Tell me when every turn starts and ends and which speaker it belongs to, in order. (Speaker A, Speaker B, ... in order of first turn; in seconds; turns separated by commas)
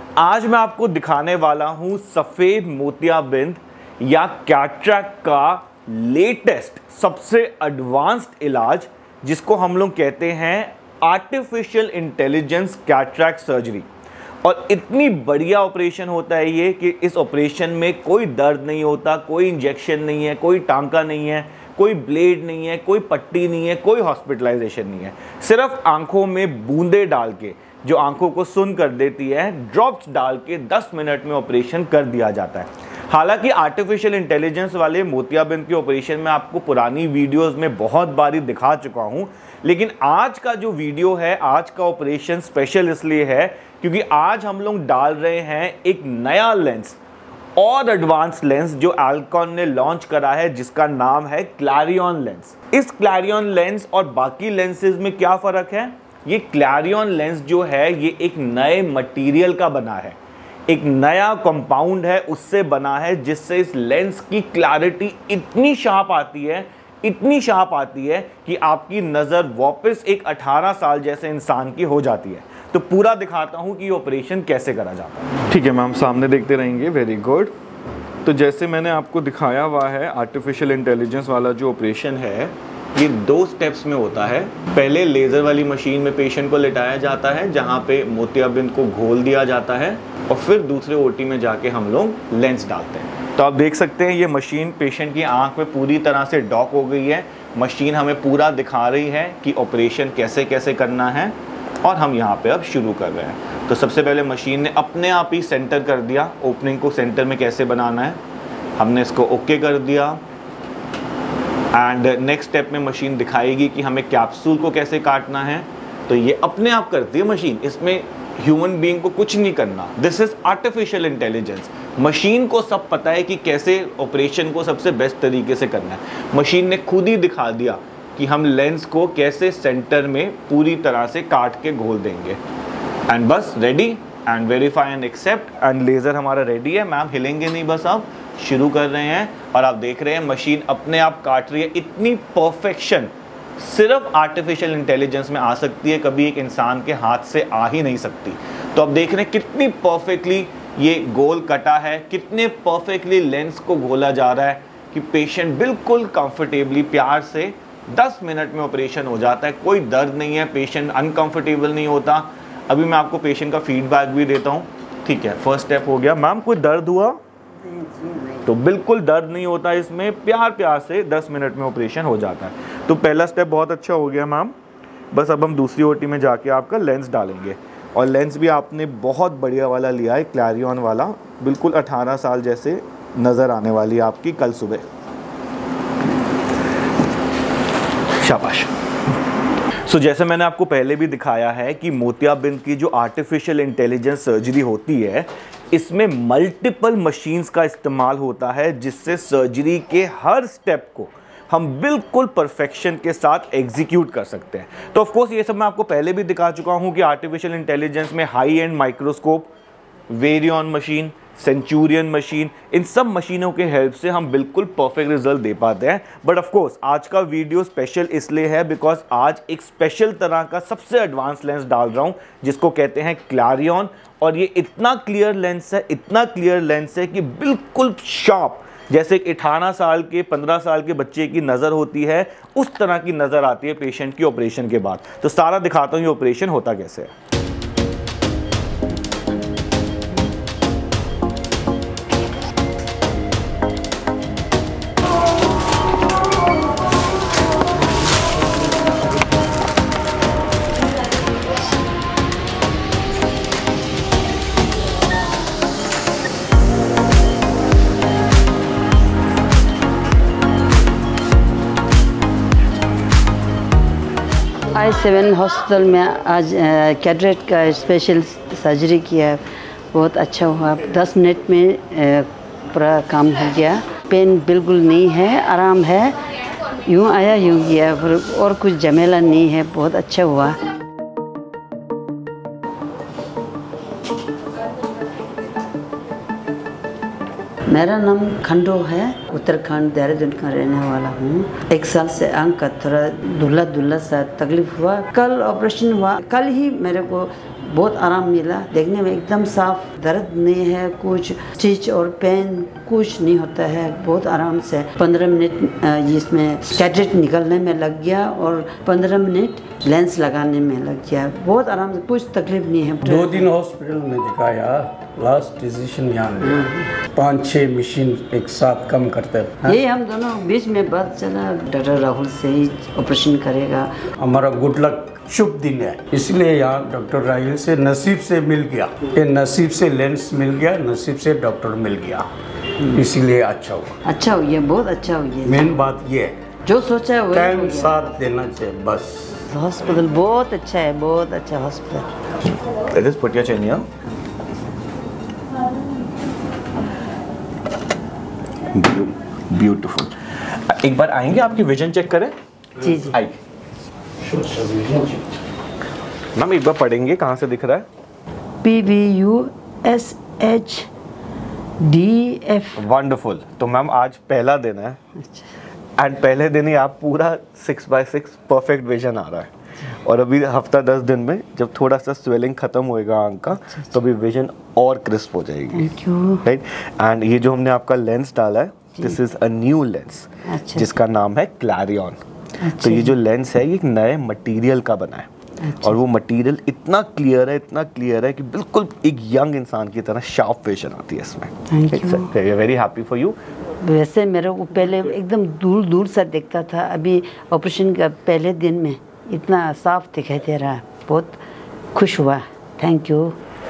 Speaker A: 0.2-13.9, Speaker A: 14.4-47.0, Speaker A: 47.6-60.2, Speaker A: 60.7-77.5, Speaker A: 78.2-108.2, Speaker A: 108.8-110.2, Speaker A: 111.7-132.4, Speaker A: 133.1-167.2, Speaker B: 167.6-168.4, Speaker A: 168.4-174.6, Speaker A: 175.1-184.8, Speaker A: 188.2-188.7, Speaker A: 189.8-209.5, Speaker A: 210.1-237.1, Speaker B: 264.7-269.4, Speaker B: 269.9-276.3, Speaker B: 276.8-280.6, Speaker B: 287.7-313.5, Speaker C: 313.0-319.8, Speaker B: 316.4-316.9, Speaker B: 319.6-323.9, Speaker C: 324.2-332.3, Speaker C: 332.8-334.0, Speaker B: 334.1-335.7, Speaker C: 335.4-336.4, Speaker B: 336.7-338.1, Speaker C: 337.3-339.4, Speaker B: 339.5-342.2, Speaker A: 342.5-343.9, Speaker A: 348.7-352.4, Speaker B: 352.8-353.1, Speaker A: 352.9-353.4, Speaker C: 354.2-355.2, Speaker A: 356.4-357.9, Speaker B: 358.6-360.9, Speaker B: 361.8-362.8, Speaker A: 362.8-365.0, Speaker B: 365.2-365.6, Speaker A: 366.0-382.2, Speaker B: 375.8-376.4, Speaker B: 380.5-380.9, Speaker B: 382.6-383.1, Speaker A: 382.8-385.3, Speaker B: 385.6-386.0, Speaker A: 385.8-393.4, Speaker B: 391.7-392.3, Speaker B: 393.8-401.4, Speaker B: 401.9-403.4